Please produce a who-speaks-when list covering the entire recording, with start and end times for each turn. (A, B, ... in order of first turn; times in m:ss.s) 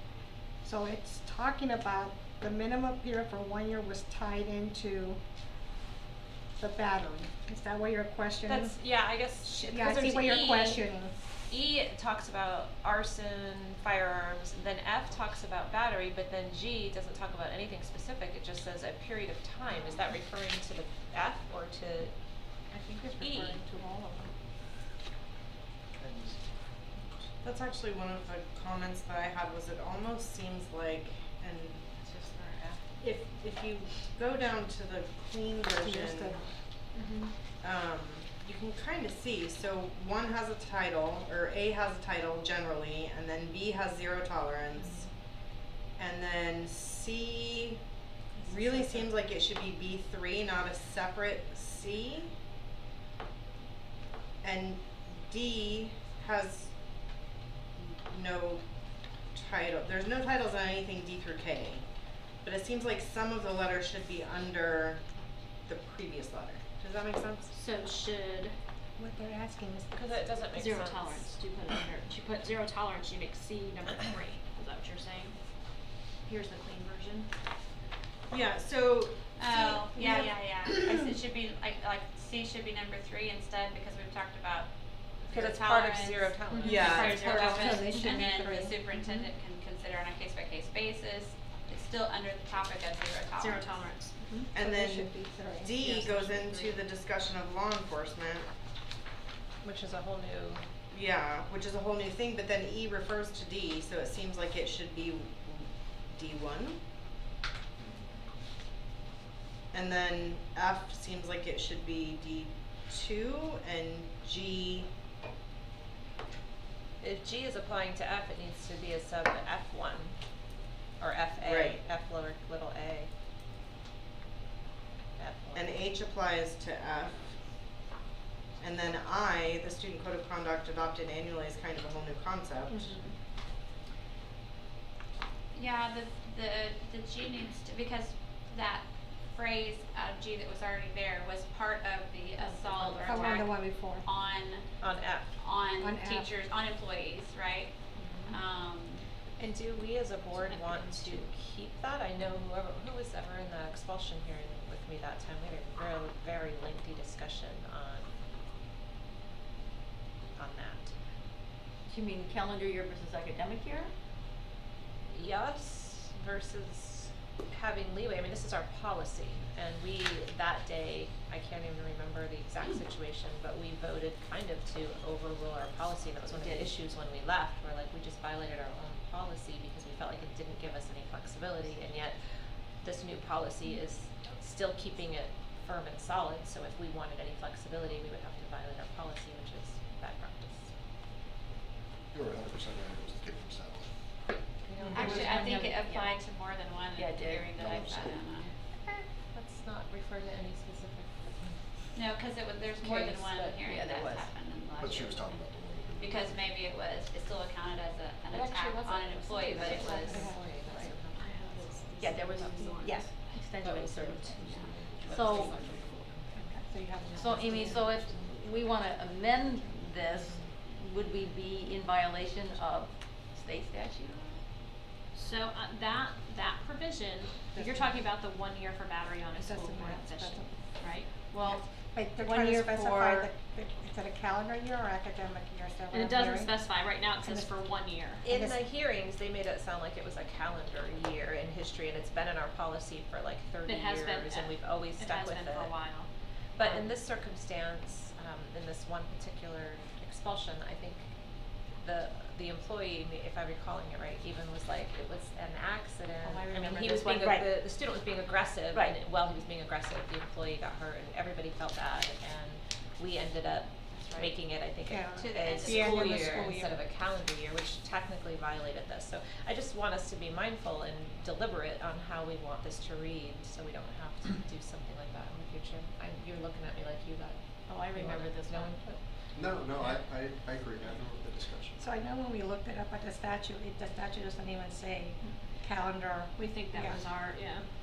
0:00.6-0:05.2 A
0:06.6-0:08.7 A
0:08.4-0:10.8 B
0:09.4-0:11.1 A
0:11.5-0:22.1 B
0:22.7-0:24.3 A
0:23.1-0:23.6 B
0:26.0-0:26.4 C
0:27.4-0:36.4 D
0:35.8-0:36.4 A
0:36.9-0:37.3 E
0:37.6-0:45.0 D
0:46.0-0:47.8 D
0:48.4-0:52.3 D
0:54.4-0:56.7 D
0:57.8-0:58.6 D
0:59.3-1:01.9 D
1:02.4-1:05.0 D
1:05.7-1:07.5 D
1:07.5-1:08.6 E
1:09.0-1:10.0 A
1:09.9-1:11.3 B
1:10.5-1:15.4 E
1:16.2-1:17.3 E
1:18.3-1:20.9 D
1:19.4-1:24.7 F
1:25.2-1:33.9 F
1:25.3-1:28.7 B
1:26.6-1:28.1 E
1:26.6-1:27.2 D
1:26.9-1:28.8 A
1:33.4-1:34.5 E
1:34.3-1:36.7 A
1:34.5-1:38.5 D
1:39.6-1:40.6 B
1:40.9-1:46.8 D
1:49.7-1:54.9 D
1:57.0-2:00.2 B
2:01.0-2:03.1 B
2:01.4-2:01.8 D
2:05.2-2:05.8 B
2:05.5-2:07.4 D
2:08.6-2:13.0 D
2:12.8-2:13.1 E
2:15.5-2:24.7 F
2:22.9-2:23.4 E
2:23.0-2:24.0 A
2:24.8-2:25.3 B
2:25.4-2:29.0 F
2:25.8-2:26.3 A
2:28.0-2:28.3 E
2:29.4-2:38.1 B
2:30.4-2:31.2 E
2:40.4-2:40.9 B
2:41.8-2:43.9 G
2:45.1-3:02.2 B
2:56.4-2:56.7 G
3:02.8-3:10.7 B
3:12.1-3:13.9 C
3:14.3-3:15.1 B
3:14.9-3:18.5 F
3:15.0-3:15.5 E
3:15.1-3:16.1 G
3:17.0-3:18.2 G
3:18.8-3:21.6 B
3:21.9-3:30.3 F
3:22.7-3:23.7 B
3:23.7-3:24.3 G
3:24.8-3:26.6 C
3:28.3-3:32.9 B
3:29.6-3:31.0 A
3:31.2-3:33.1 E
3:32.0-3:34.4 G
3:33.6-3:36.5 B
3:34.2-3:36.1 C
3:34.4-3:34.7 F
3:35.1-3:35.6 G
3:36.3-3:38.1 A
3:37.0-3:37.4 B
3:37.2-3:44.4 G
3:37.4-3:39.0 C
3:40.2-3:40.6 B
3:45.1-3:51.6 E
3:47.5-3:48.0 A
3:49.3-3:50.6 A
3:51.4-3:57.5 A
3:52.2-3:53.3 E
3:55.9-3:58.2 E
3:58.2-3:58.6 A
3:58.2-4:05.8 B
4:03.6-4:06.1 E
4:06.6-4:11.1 B
4:06.6-4:06.9 E
4:11.8-4:37.4 B
4:16.2-4:17.6 G
4:18.7-4:19.0 G
4:24.9-4:26.7 A
4:25.2-4:26.4 F
4:25.9-4:26.7 E
4:37.7-4:38.8 G
4:37.9-4:39.0 B
4:39.3-4:41.8 C
4:41.8-4:47.0 A
4:46.4-4:47.6 E